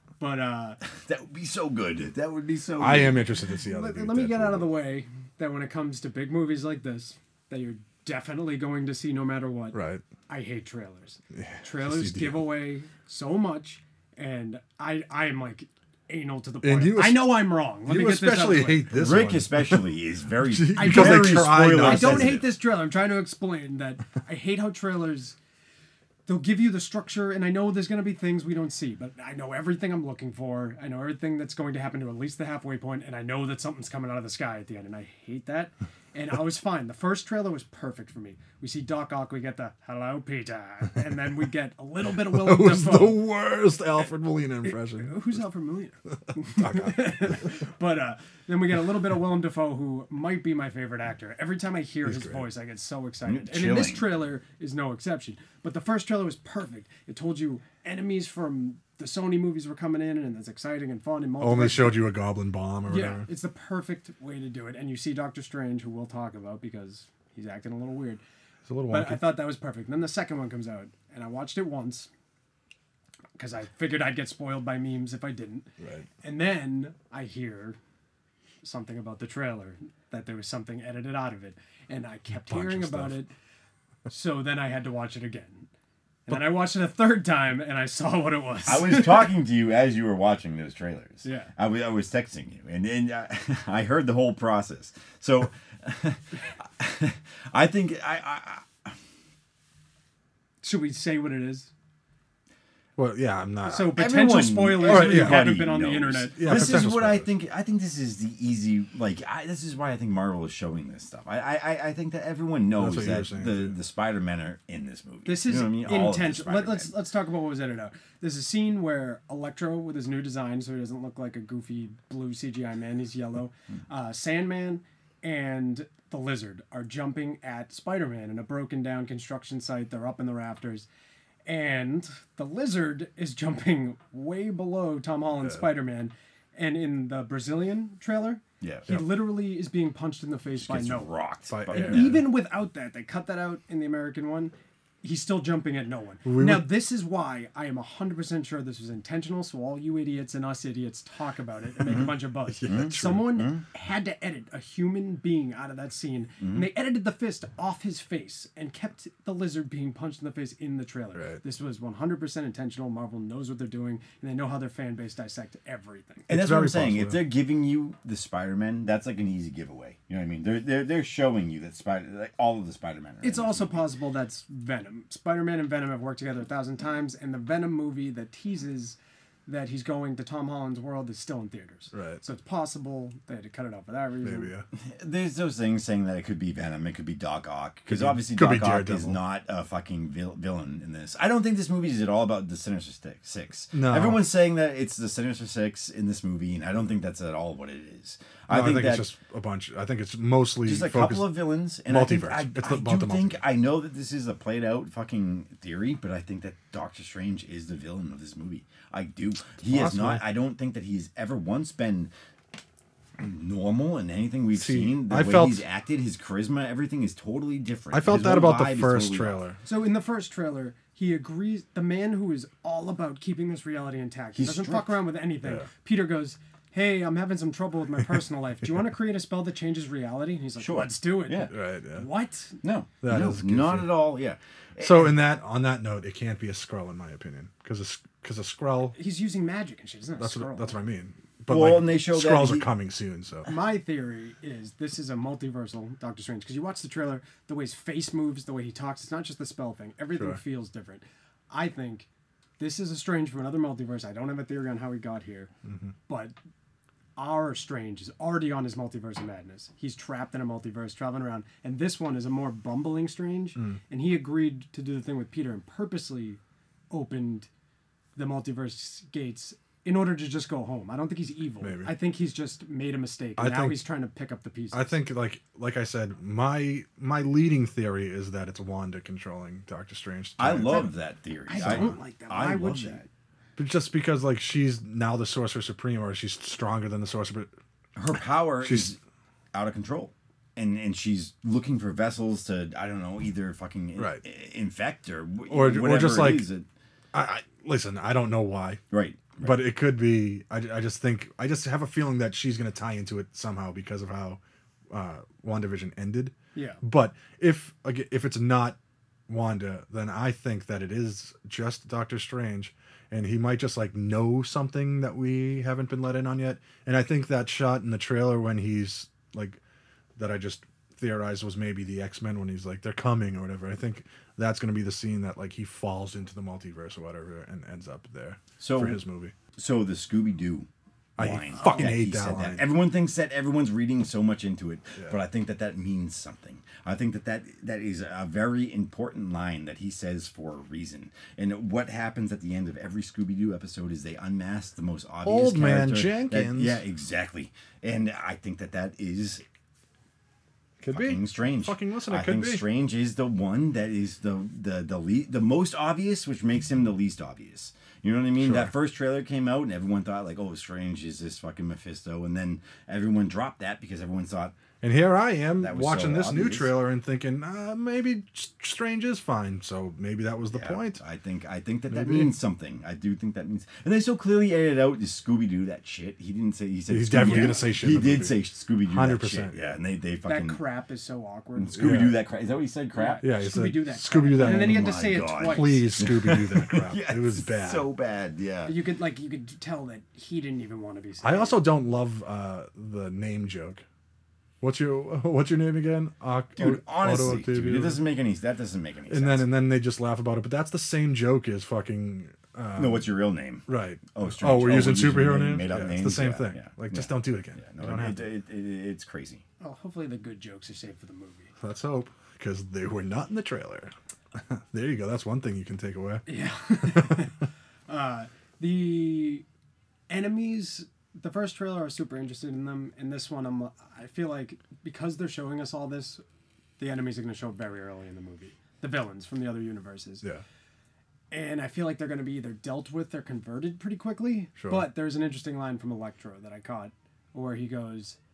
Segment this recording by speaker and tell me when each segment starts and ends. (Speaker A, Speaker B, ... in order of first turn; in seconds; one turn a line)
Speaker A: 0.2-0.8
Speaker B: 0.9-3.3
Speaker C: 2.8-4.7
Speaker A: 3.6-18.9
Speaker C: 9.7-10.0
Speaker C: 11.3-12.4
Speaker C: 16.6-19.8
Speaker B: 18.9-22.4
Speaker C: 20.4-22.4
Speaker A: 20.7-25.4
Speaker A: 26.3-43.2
Speaker C: 42.2-45.2
Speaker A: 44.6-62.0
Speaker C: 46.6-47.3
Speaker C: 52.0-52.4
Speaker B: 53.2-54.1
Speaker C: 61.4-63.3
Speaker A: 62.9-68.2
Speaker C: 68.7-69.4
Speaker A: 68.9-72.1
Speaker A: 73.4-75.7
Speaker C: 75.8-76.0
Speaker A: 76.2-77.8
Speaker A: 78.6-83.3
Speaker C: 82.5-83.2
Speaker A: 84.1-85.7
Speaker A: 86.3-89.3
Speaker B: 88.7-98.9
Speaker A: 91.2-91.5
Speaker A: 100.6-101.7
Speaker C: 103.0-104.0
Speaker A: 103.7-106.8
Speaker B: 103.9-116.9
Speaker C: 104.8-105.5
Speaker C: 106.4-107.3
Speaker C: 112.8-113.7
Speaker A: 115.2-130.8
Speaker A: 131.4-141.1
Speaker B: 138.6-139.0
Speaker B: 140.5-142.3
Speaker C: 141.5-142.2
Speaker A: 141.7-166.3
Speaker C: 146.2-146.7
Speaker B: 151.8-153.6
Speaker C: 152.5-153.3
Speaker B: 156.4-156.7
Speaker C: 166.3-167.2
Speaker B: 166.3-173.8
Speaker A: 173.2-184.6
Speaker C: 181.9-182.2
Speaker C: 184.2-184.6
Speaker B: 184.8-199.1
Speaker C: 187.9-189.2
Speaker C: 193.7-194.2
Speaker C: 198.5-203.4
Speaker B: 200.6-212.1
Speaker C: 209.7-210.2
Speaker B: 213.2-219.4
Speaker C: 214.5-215.6
Speaker C: 217.9-219.6
Speaker A: 219.6-232.6
Speaker B: 224.3-225.0
Speaker B: 230.6-231.5
Speaker C: 231.5-232.1
Speaker B: 232.6-235.2
Speaker C: 233.0-233.9
Speaker C: 234.8-238.9
Speaker A: 238.9-240.7
Speaker C: 240.2-243.5
Speaker B: 241.5-242.7
Speaker A: 243.4-252.1
Speaker A: 252.6-255.5
Speaker A: 256.1-256.3
Speaker A: 257.2-266.4
Speaker A: 266.9-267.5
Speaker A: 268.1-274.9
Speaker C: 271.6-271.9
Speaker C: 273.4-273.8
Speaker C: 274.7-280.9
Speaker B: 280.4-283.1
Speaker A: 281.5-283.0
Speaker C: 281.6-281.9
Speaker C: 283.6-287.5
Speaker B: 287.9-289.0
Speaker C: 288.6-288.9
Speaker B: 289.5-296.6
Speaker C: 294.0-294.2
Speaker C: 295.5-296.5
Speaker C: 297.1-298.8
Speaker B: 298.9-299.7
Speaker C: 299.4-304.4
Speaker C: 304.9-308.8
Speaker A: 306.5-306.8
Speaker C: 309.3-319.6
Speaker C: 320.2-329.3
Speaker B: 328.6-329.0
Speaker B: 329.6-349.4
Speaker C: 331.2-332.7
Speaker A: 331.5-331.9
Speaker C: 345.2-346.8
Speaker C: 350.8-352.6
Speaker B: 350.9-364.5
Speaker C: 358.4-358.7
Speaker C: 364.8-371.0
Speaker B: 365.6-366.7
Speaker B: 370.5-380.6
Speaker C: 371.9-372.3
Speaker C: 376.9-379.7
Speaker A: 377.2-377.6
Speaker A: 380.2-381.9
Speaker B: 381.5-383.2
Speaker C: 381.8-382.2
Speaker A: 382.9-386.0
Speaker C: 383.2-387.9
Speaker B: 384.3-388.8
Speaker A: 388.6-391.6
Speaker C: 391.2-393.8
Speaker C: 394.6-398.0
Speaker B: 396.6-399.6
Speaker C: 399.1-403.1
Speaker B: 402.8-409.4
Speaker C: 403.7-408.2
Speaker A: 409.6-411.5
Speaker C: 411.6-416.2
Speaker A: 416.3-419.4
Speaker C: 416.8-417.2
Speaker A: 420.1-426.2
Speaker A: 426.8-430.2
Speaker A: 431.3-438.2
Speaker C: 434.6-434.9